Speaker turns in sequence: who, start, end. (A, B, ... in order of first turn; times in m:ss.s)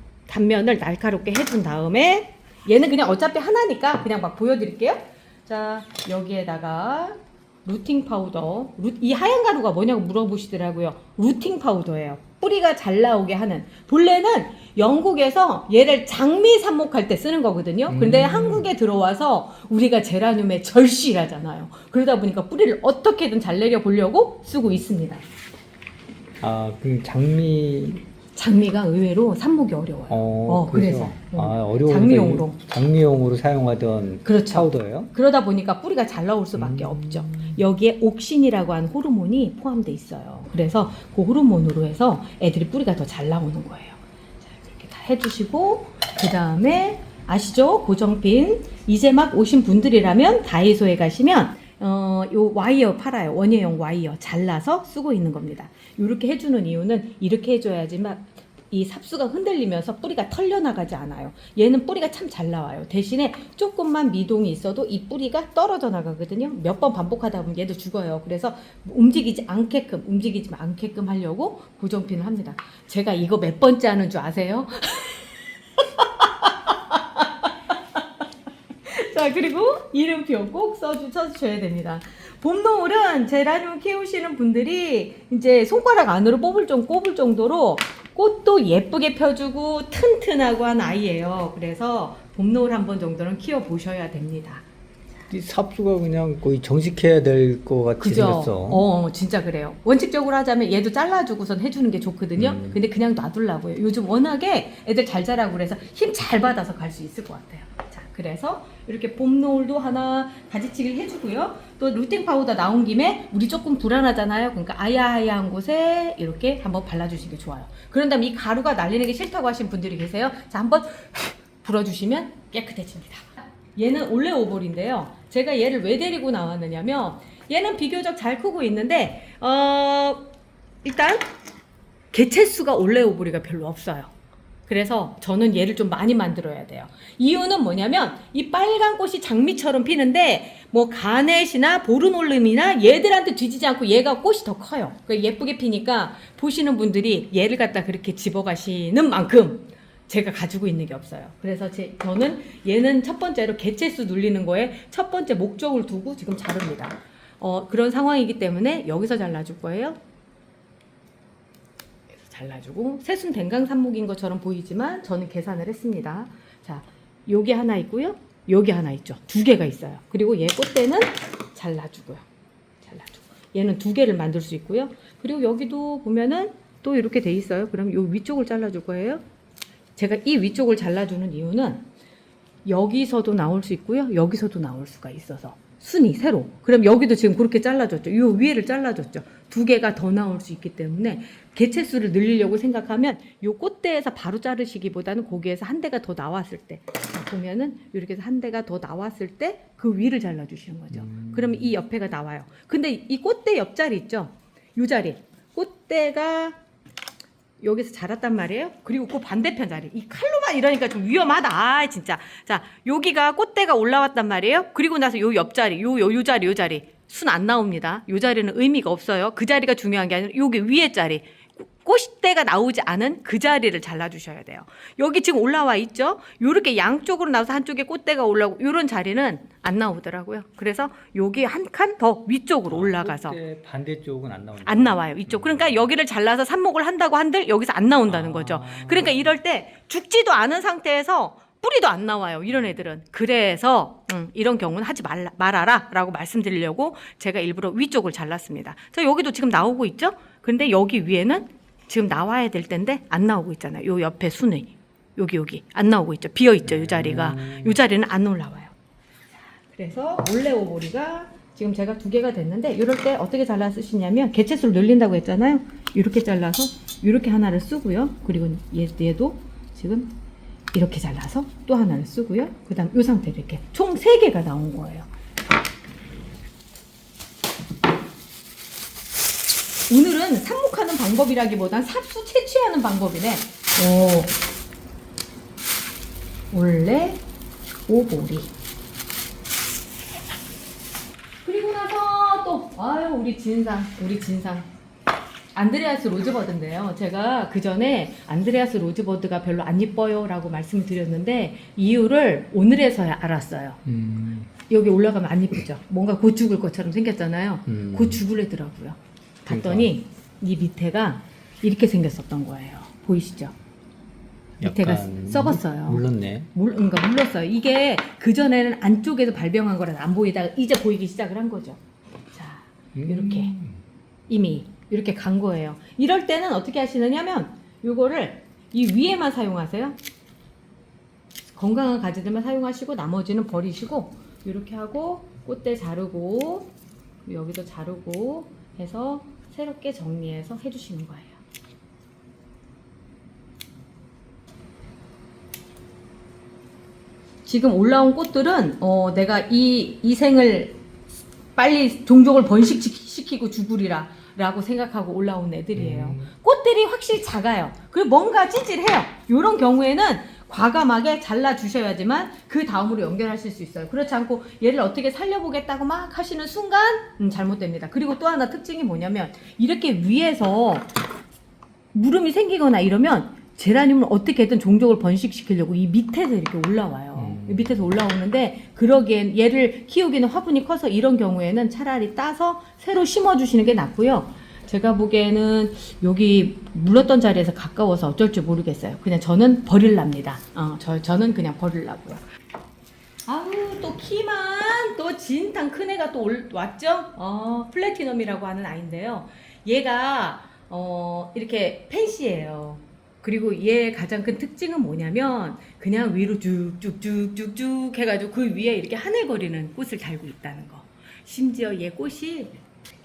0:00.3-0:25.2 A
0:17.9-0:18.7 B
0:26.4-0:28.0 B
0:28.4-0:32.6 A
0:30.1-0:35.1 B
0:34.2-1:18.0 A
0:36.6-0:37.6 B
1:18.8-1:34.6 A
1:35.3-1:38.8 B
1:38.0-2:10.3 A
1:42.4-1:42.8 B
2:10.8-2:11.3 A
2:12.1-2:14.1 A
2:14.7-2:40.0 A
2:42.1-2:52.2 A
2:52.8-2:59.2 A
3:00.0-3:01.9 A
3:02.6-3:26.6 A
3:20.9-3:21.8 B
3:27.6-3:53.4 A
3:52.7-3:55.8 B
3:54.6-4:18.7 A
3:58.1-3:59.3 B
4:02.5-4:02.8 B
4:16.6-4:17.8 B
4:19.7-4:30.1 A
4:30.7-4:35.1 A
4:39.9-4:44.4 A
4:46.5-4:47.2 A
4:47.9-4:48.5 A
4:51.4-4:54.7 A
4:55.5-5:03.8 A
5:03.8-5:04.5 B
5:04.7-5:13.5 A
5:07.7-5:08.2 B
5:09.5-5:09.9 B
5:14.6-5:16.5 B
5:14.6-5:21.8 A
5:22.3-5:23.5 A
5:22.9-5:23.8 B
5:24.3-5:30.0 A
5:31.5-5:36.7 A
5:37.2-5:41.4 A
5:47.4-5:50.8 A
5:51.6-6:10.9 A
5:55.8-5:56.3 B
6:11.9-6:32.2 A
6:17.2-6:17.9 B
6:33.2-6:52.6 A